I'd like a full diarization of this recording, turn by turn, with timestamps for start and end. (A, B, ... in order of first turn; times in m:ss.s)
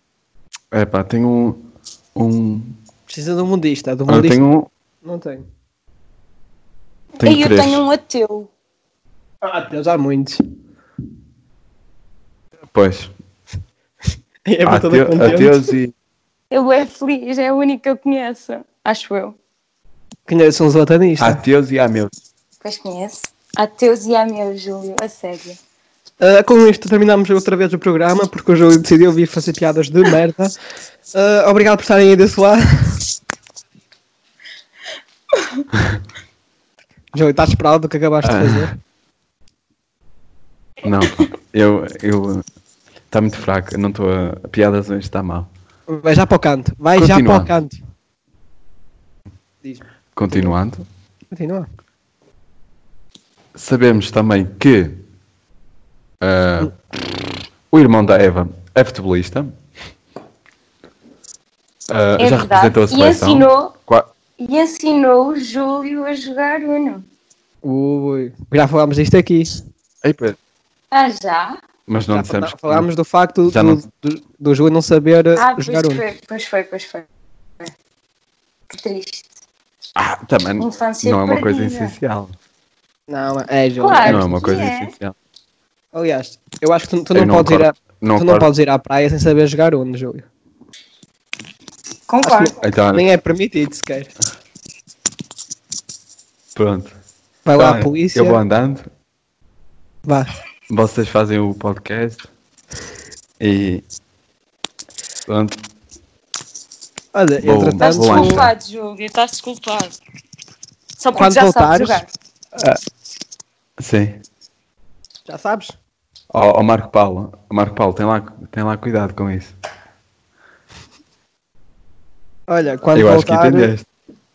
0:00.7-0:02.8 A
0:03.1-0:04.4 B
0:04.1-0:04.7 A
0:05.0-0:05.4 B
0:07.2-0:07.8 A
0:07.2-0:08.5 C
0:09.4-0:10.4 B
0:12.7-0:13.1 A
0:14.4-0:15.5 B
0:14.6-0:15.9 A
0:16.5-0:19.4 C
0:20.3-0:21.4 B
0:21.2-0:22.1 A
0:22.6-0:25.6 C
0:26.2-0:30.5 B
0:31.1-0:33.0 B
0:37.1-0:38.7 B
0:38.2-0:38.7 A
0:40.8-0:42.4 A
0:43.1-0:45.5 A
0:45.9-0:47.8 B
0:47.0-0:47.5 A
0:49.6-0:50.5 B
0:50.2-0:50.8 A
0:51.3-0:51.7 B
0:53.5-0:55.0 A
0:56.2-0:59.6 A
1:01.9-1:04.1 A
1:02.2-1:03.7 C
1:04.4-1:07.0 C
1:07.6-1:09.5 B
1:10.0-1:10.4 A
1:10.9-1:11.6 C
1:11.9-1:12.9 A
1:12.1-1:16.0 B
1:13.5-1:13.8 A
1:15.3-1:17.1 C
1:18.7-1:19.3 C
1:20.0-1:22.4 A
1:20.6-1:22.0 C
1:23.1-1:24.2 B
1:23.8-1:24.9 C
1:24.0-1:25.1 A
1:25.9-1:30.3 B
1:27.1-1:28.5 A
1:32.1-1:32.5 C
1:32.2-1:34.1 B
1:32.6-1:33.0 A
1:36.5-1:36.9 A
1:37.4-1:38.4 B
1:37.6-1:38.8 A
1:40.7-1:42.3 A
1:43.4-1:43.8 A
1:45.3-1:45.6 A
1:47.1-1:48.5 B
1:47.4-1:48.5 A
1:47.8-1:49.9 C
1:51.0-1:52.1 C
1:51.1-1:52.0 B
1:53.8-1:54.2 A
1:55.2-1:55.7 B
1:56.3-1:59.5 A
2:02.5-2:03.7 B
2:02.9-2:03.8 A